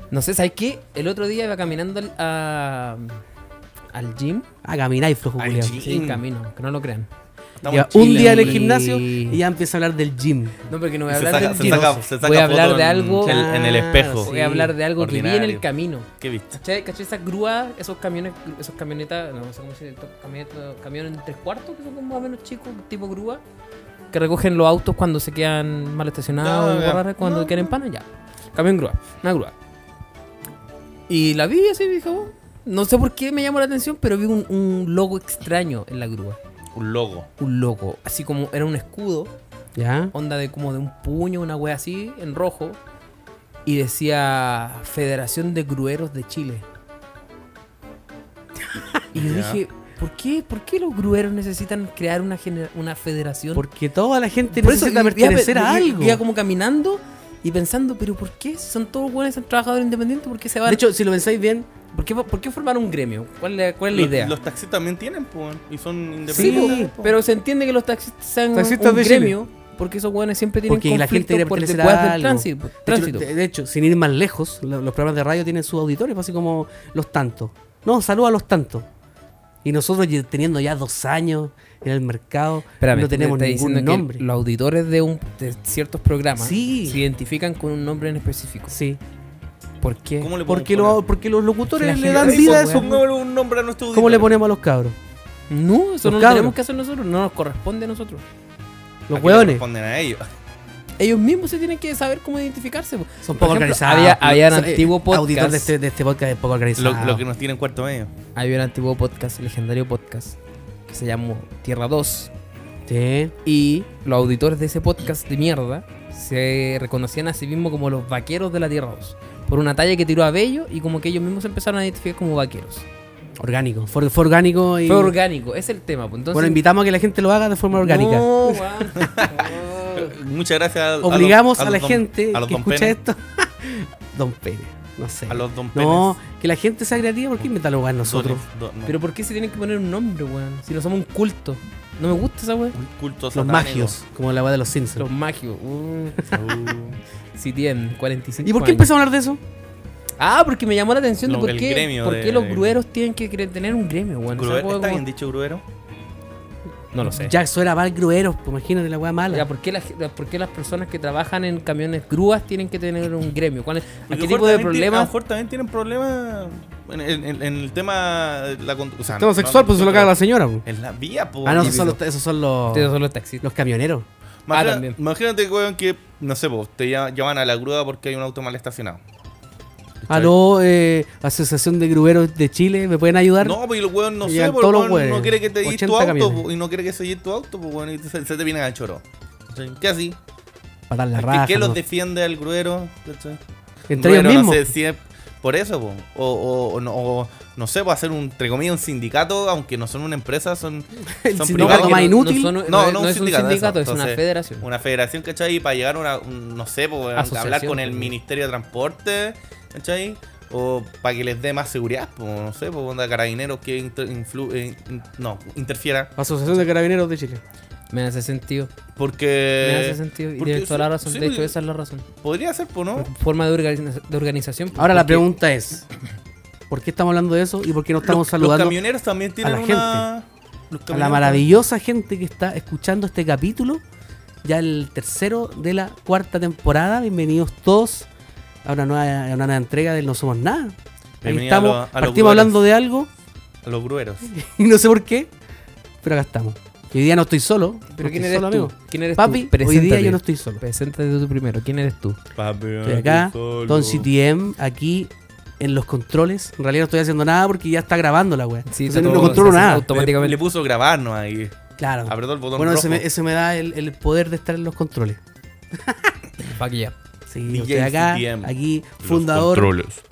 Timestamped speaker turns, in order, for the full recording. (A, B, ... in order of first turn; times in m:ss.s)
0:00.1-0:03.2 A
0:03.9-0:04.4 A
0:04.6-0:05.7 B
0:05.4-0:06.2 C
0:05.8-0:07.1 A
0:07.6-0:08.7 C
0:07.7-0:10.7 B
0:07.9-0:09.4 A
0:10.7-0:13.4 A
0:11.1-0:14.3 C
0:11.6-0:12.0 B
0:13.2-0:14.7 B
0:14.2-0:16.1 A
0:15.0-0:15.6 C
0:16.2-0:16.6 C
0:16.6-0:23.4 A
0:24.1-0:29.5 A
0:26.4-0:27.5 C
0:31.1-0:36.4 A
0:36.7-0:37.3 C
0:37.4-0:39.3 A
0:39.8-0:40.1 B
0:40.1-0:42.8 A
0:43.7-0:46.6 A
0:49.1-0:53.6 A
0:49.1-0:49.6 C
0:53.6-0:56.2 B
0:54.5-1:00.8 A
1:00.7-1:01.7 B
1:01.9-1:04.4 A
1:03.9-1:07.2 C
1:06.3-1:06.9 B
1:06.3-1:13.3 A
1:08.5-1:09.4 B
1:10.7-1:18.9 B
1:19.6-1:24.2 B
1:22.8-1:28.8 A
1:26.4-1:27.0 B
1:28.7-1:29.0 B
1:29.8-1:30.3 A
1:30.2-1:31.0 C
1:30.5-1:32.9 B
1:31.7-1:33.0 A
1:32.2-1:34.3 C
1:33.9-1:35.0 B
1:35.5-1:38.2 A
1:36.0-1:36.6 B
1:39.1-1:39.6 B
1:39.1-1:40.3 C
1:41.0-1:45.7 A
1:43.2-1:47.2 B
1:46.8-1:48.1 C
1:48.4-1:50.4 A
1:50.9-1:52.3 A
1:52.9-1:53.4 B
1:53.4-2:02.8 A
2:03.4-2:05.2 B
2:04.9-2:06.6 A
2:06.3-2:08.8 B
2:07.7-2:10.2 A
2:09.0-2:13.0 C
2:11.0-2:18.4 B
2:15.3-2:16.2 C
2:18.0-2:19.0 C
2:18.9-2:22.8 A
2:22.8-2:24.0 C
2:23.3-2:25.1 B
2:25.0-2:26.3 A
2:26.3-2:27.0 C
2:27.4-2:28.9 A
2:28.4-2:29.4 B
2:30.2-2:35.0 A
2:31.3-2:32.8 C
2:34.4-2:35.6 C
2:36.9-2:37.3 A
2:37.0-2:39.5 B
2:39.3-2:45.1 A
2:44.1-2:50.1 C
2:49.1-2:50.6 B
2:50.6-2:51.9 C
2:51.4-2:54.1 B
2:51.6-2:52.0 A
2:52.7-2:53.4 A
2:54.5-2:59.0 C
2:54.5-2:55.0 A
3:00.0-3:00.4 C
3:00.1-3:03.6 B
3:03.4-3:10.2 C
3:04.2-3:06.4 B
3:10.9-3:11.8 B
3:11.2-3:13.4 C
3:13.9-3:14.7 B
3:13.9-3:36.1 C
3:21.2-3:22.6 B
3:21.6-3:24.7 A
3:27.2-3:28.1 A
3:36.2-3:37.4 B
3:37.9-3:38.7 A
3:39.0-3:41.5 C
3:39.6-3:42.1 A
3:42.2-3:43.1 C
3:43.0-3:45.3 A
3:44.8-3:45.9 B
3:46.7-3:48.8 B
3:48.0-3:51.4 C
3:49.4-3:50.1 B
3:50.9-3:53.8 B
3:54.4-3:58.1 B
3:58.6-4:03.1 B
4:01.2-4:02.6 C
4:03.6-4:04.3 C
4:04.2-4:05.3 B
4:06.0-4:10.6 B
4:08.0-4:12.2 A
4:12.4-4:14.1 C
4:12.8-4:19.9 B
4:18.7-4:20.4 A
4:19.0-4:23.0 C
4:21.8-4:25.2 B
4:25.7-4:26.1 B
4:26.4-4:27.0 A
4:27.3-4:29.7 B
4:27.5-4:30.0 C